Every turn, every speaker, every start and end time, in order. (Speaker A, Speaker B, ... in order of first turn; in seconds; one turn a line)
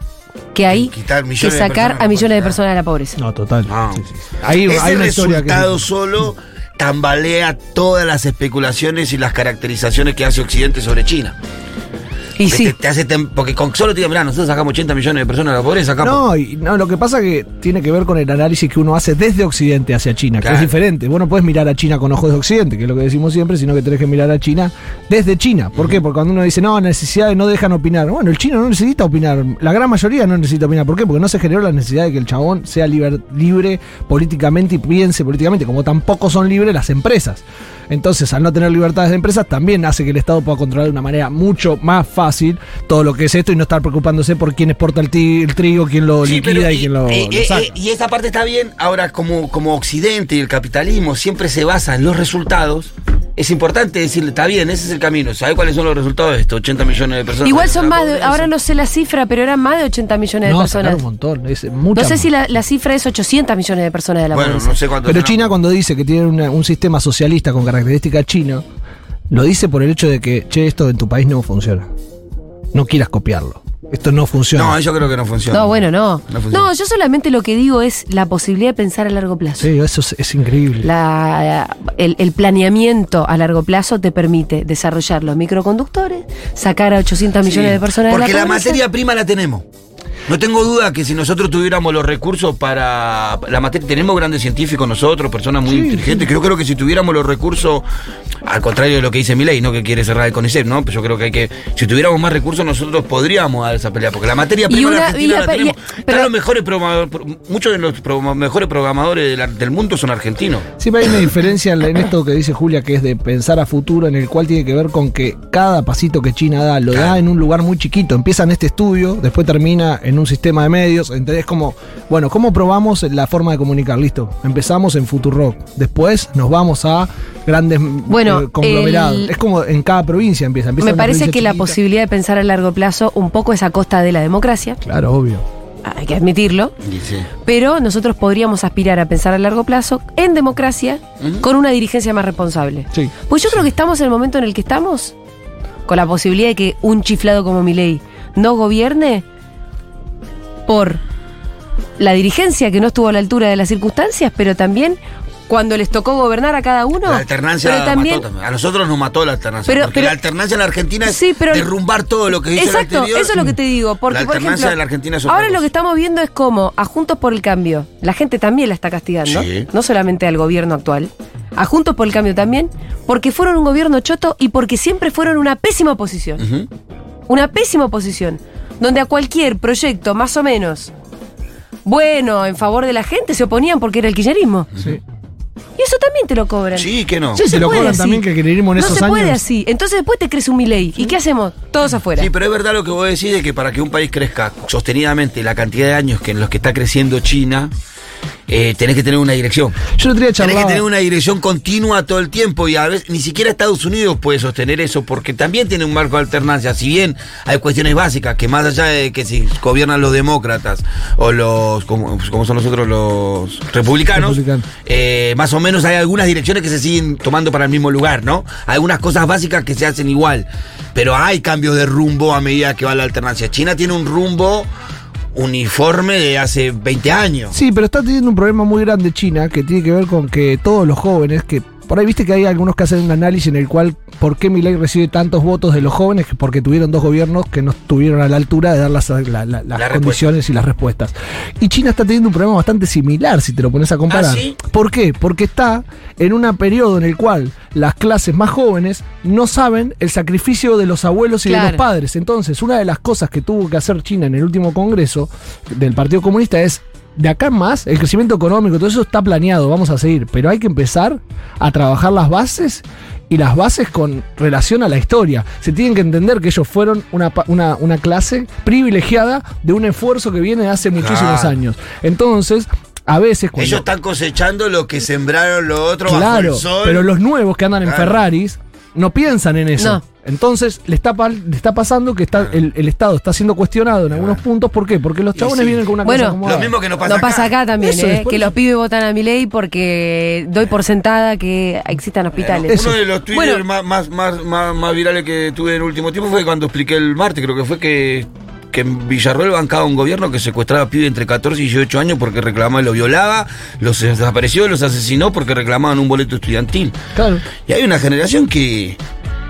Speaker A: 0.5-3.2
Speaker B: 0.7-2.6
Speaker C: 3.2-5.9
Speaker B: 3.7-11.4
Speaker A: 12.4-12.7
Speaker B: 12.5-16.2
Speaker C: 16.0-47.7
Speaker B: 20.4-20.7
Speaker B: 25.8-26.0
Speaker B: 46.2-58.5
Speaker A: 57.4-61.0
Speaker C: 60.5-62.3
Speaker A: 62.0-64.8
Speaker B: 64.3-65.5
Speaker C: 65.1-68.6
Speaker C: 69.3-71.9
Speaker C: 72.7-74.8
Speaker B: 74.5-76.7
Speaker A: 75.5-79.7
Speaker C: 79.6-80.9
Speaker A: 80.8-88.8
Speaker B: 87.5-89.7
Speaker B: 90.3-97.9
Speaker C: 95.7-96.3
Speaker B: 98.5-110.7
Speaker A: 104.7-106.3
Speaker C: 110.8-131.8
Speaker B: 116.9-117.2
Speaker A: 128.1-129.3
Speaker A: 130.8-134.8
Speaker C: 134.8-135.4
Speaker A: 135.8-136.7
Speaker B: 136.8-137.3
Speaker A: 137.4-145.1
Speaker A: 145.9-149.2
Speaker A: 150.7-151.0
Speaker A: 152.0-158.2
Speaker B: 157.1-163.4
Speaker A: 159.7-160.2
Speaker A: 161.1-161.7
Speaker A: 162.5-164.8
Speaker B: 164.1-165.7
Speaker A: 165.3-176.4
Speaker B: 169.2-169.7
Speaker B: 176.4-176.7
Speaker A: 177.3-180.9
Speaker A: 181.8-184.7
Speaker A: 185.8-188.2
Speaker B: 186.8-187.4
Speaker C: 187.3-189.4
Speaker A: 188.8-192.3
Speaker B: 192.2-197.7
Speaker B: 198.5-224.7
Speaker C: 200.0-200.8
Speaker C: 214.1-214.7
Speaker B: 225.3-227.6
Speaker C: 227.5-273.9
Speaker B: 239.8-240.2
Speaker B: 244.1-244.6
Speaker A: 251.5-251.8
Speaker B: 271.0-271.5
Speaker B: 273.6-277.1
Speaker C: 276.1-286.8
Speaker B: 277.8-278.2
Speaker B: 284.1-284.4
Speaker B: 285.4-285.8
Speaker A: 286.0-286.4
Speaker B: 286.4-287.5
Speaker A: 287.0-292.7
Speaker C: 287.8-288.6
Speaker B: 292.4-307.0
Speaker C: 292.7-293.0
Speaker A: 293.3-293.6
Speaker C: 307.2-307.4
Speaker B: 307.7-309.0